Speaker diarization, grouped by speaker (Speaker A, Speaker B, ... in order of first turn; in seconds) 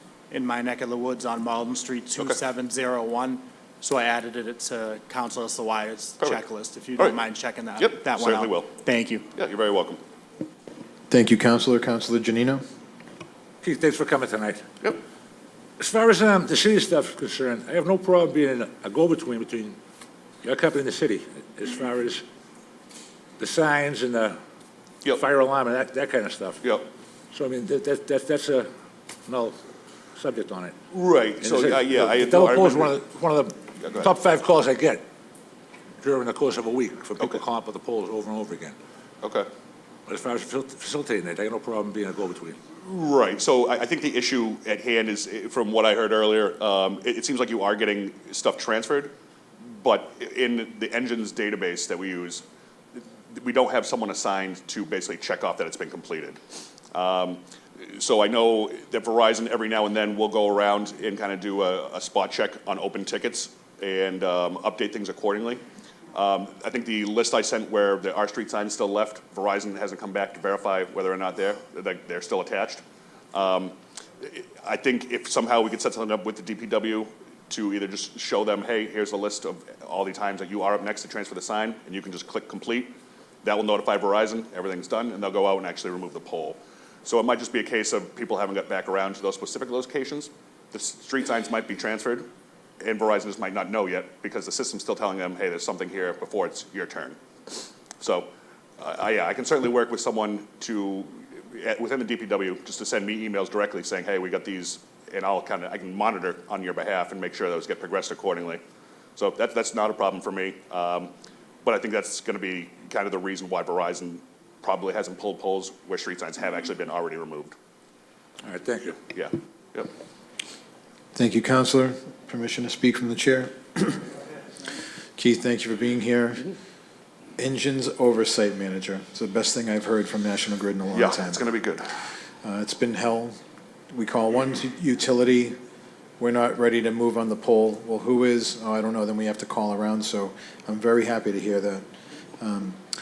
Speaker A: 0.3-9.2
Speaker B: 7.8-8.7, 9.3-10.0, 30.9-33.0, 33.8-34.1, 39.2-39.5, 42.8-49.1, 49.7-52.4, 53.3-56.4, 56.9-65.6, 66.1-72.8, 73.3-92.3, 92.8-98.3, 98.8-108.6, 109.2-111.1, 111.6-117.5, 119.1-119.9, 130.9-131.8
Speaker C: 11.1-12.6, 121.1-124.0, 125.2-126.5, 127.4-131.4, 132.4-133.4, 133.9-135.5, 136.2-141.8, 142.4-142.8
Speaker D: 13.6-14.6, 15.8-19.8, 20.4-22.2, 23.4-24.4, 25.1-26.6, 27.3-28.7, 29.3-29.5, 30.2-30.7, 31.4-35.0, 36.0-38.7, 40.1-42.6, 118.4-119.0